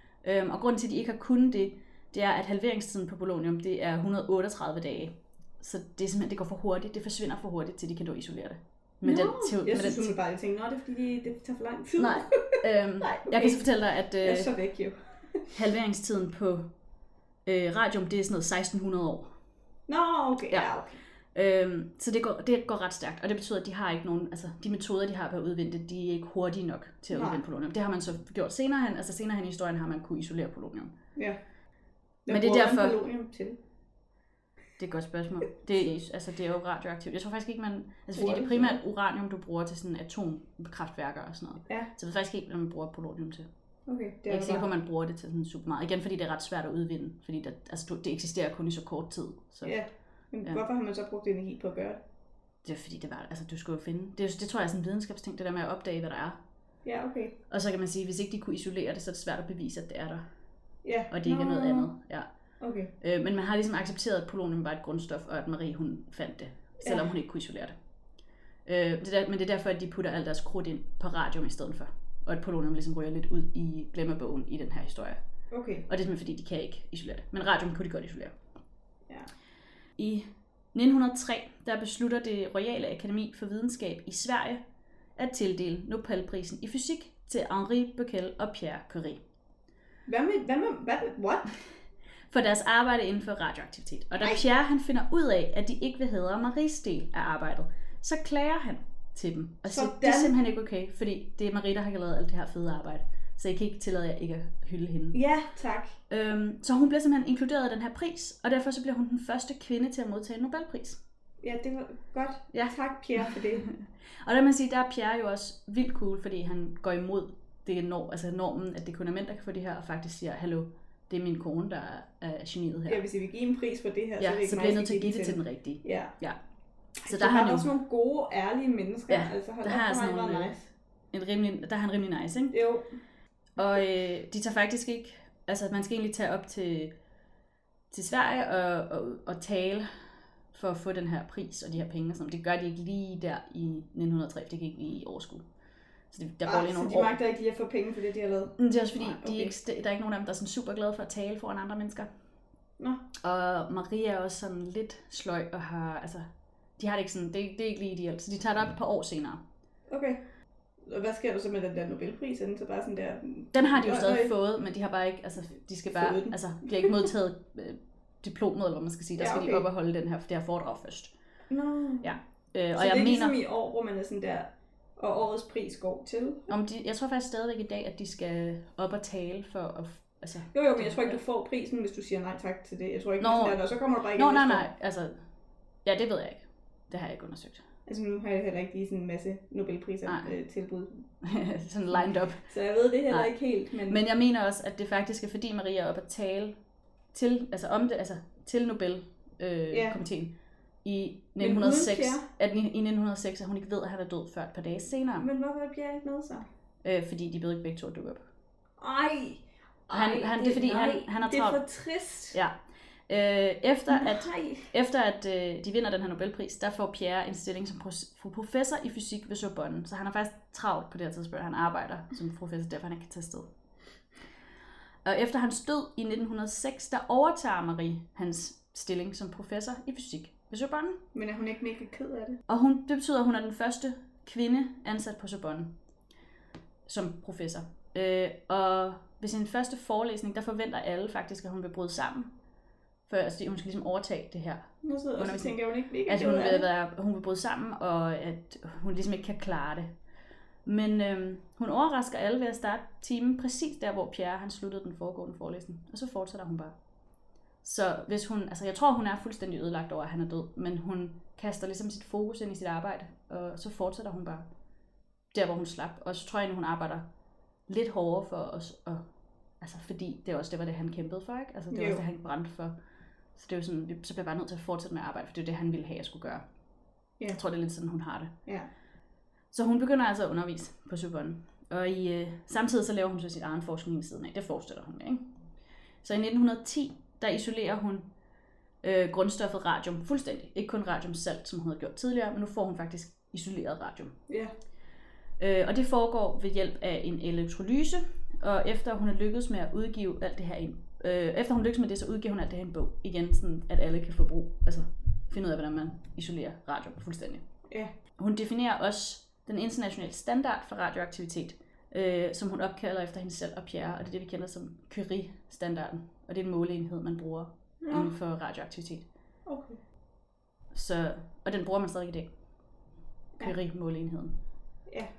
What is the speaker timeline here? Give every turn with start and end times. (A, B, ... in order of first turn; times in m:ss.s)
0:00.2-0:10.1 A
0:09.0-0:15.5 B
0:12.0-0:14.5 A
0:15.5-0:16.7 A
0:17.4-0:19.3 A
0:19.9-0:21.0 B
0:21.3-0:30.9 A
0:27.1-0:27.4 B
0:32.2-0:33.6 B
0:32.3-0:33.0 A
0:34.8-0:43.5 A
0:38.1-0:38.8 B
0:43.8-0:44.7 B
0:44.3-0:49.8 A
0:49.6-0:52.0 B
0:52.6-0:56.4 A
0:56.8-0:57.4 B
0:57.5-1:00.2 A
1:00.8-1:01.9 B
1:01.1-1:02.3 A
1:02.6-1:02.9 B
1:03.0-1:07.7 A
1:06.8-1:07.1 B
1:08.6-1:15.2 A
1:15.5-1:15.8 B
1:15.9-1:18.3 A
1:20.0-1:24.6 A
1:25.2-1:29.2 A
1:30.1-1:31.5 B
1:32.3-1:45.2 A
1:39.6-1:40.4 B
1:45.1-1:45.9 B
1:46.1-1:51.0 A
1:51.4-1:53.7 B
1:52.5-2:03.0 A
2:02.9-2:06.1 B
2:04.2-2:06.4 A
2:07.0-2:10.7 B
2:07.0-2:07.7 A
2:09.1-2:10.5 A
2:11.1-2:12.6 A
2:12.5-2:13.0 B
2:13.6-2:16.9 A
2:17.9-2:19.9 A
2:20.5-2:25.4 A
2:26.1-2:27.2 A
2:26.4-2:29.5 B
2:28.6-2:32.1 A
2:32.8-2:33.0 B
2:33.2-2:36.3 A
2:36.8-2:39.4 A
2:39.9-2:40.2 B
2:40.8-2:44.3 B
2:43.5-2:51.1 A
2:45.9-2:47.1 B
2:49.2-2:49.6 B
2:51.5-2:52.2 B
2:52.0-2:53.4 A
2:52.7-2:56.5 B
2:56.5-3:01.2 A
3:00.5-3:04.7 B
3:03.2-3:05.2 A
3:05.8-3:07.6 A
3:07.8-3:11.0 B
3:10.0-3:10.3 A
3:11.2-3:12.5 A
3:11.9-3:14.0 B
3:13.1-3:13.3 A
3:13.8-3:16.6 A
3:17.1-3:25.3 A
3:19.7-3:20.0 B
3:21.4-3:22.2 B
3:25.1-3:26.5 B
3:26.8-3:28.2 A
3:28.8-3:32.4 B
3:29.9-3:31.6 A
3:33.1-3:43.5 A
3:33.9-3:34.7 B
3:45.0-3:51.0 A
3:51.1-3:52.4 B
3:52.5-3:55.7 A
3:56.8-4:02.3 A
4:03.1-4:09.9 A
4:04.8-4:06.7 B
4:10.6-4:16.8 A
4:17.6-4:24.5 A
4:25.3-4:27.0 A
4:27.7-4:29.0 A
4:29.6-4:32.8 A
4:31.7-4:32.0 B
4:33.3-4:36.4 A
4:37.3-4:38.3 A
4:39.5-4:45.3 A
4:46.0-4:48.1 A
4:48.8-4:54.1 A
4:55.4-5:07.4 A
5:08.2-5:19.1 A
5:17.8-5:18.1 B
5:19.4-5:19.8 B
5:20.7-5:22.3 A
5:23.4-5:24.3 A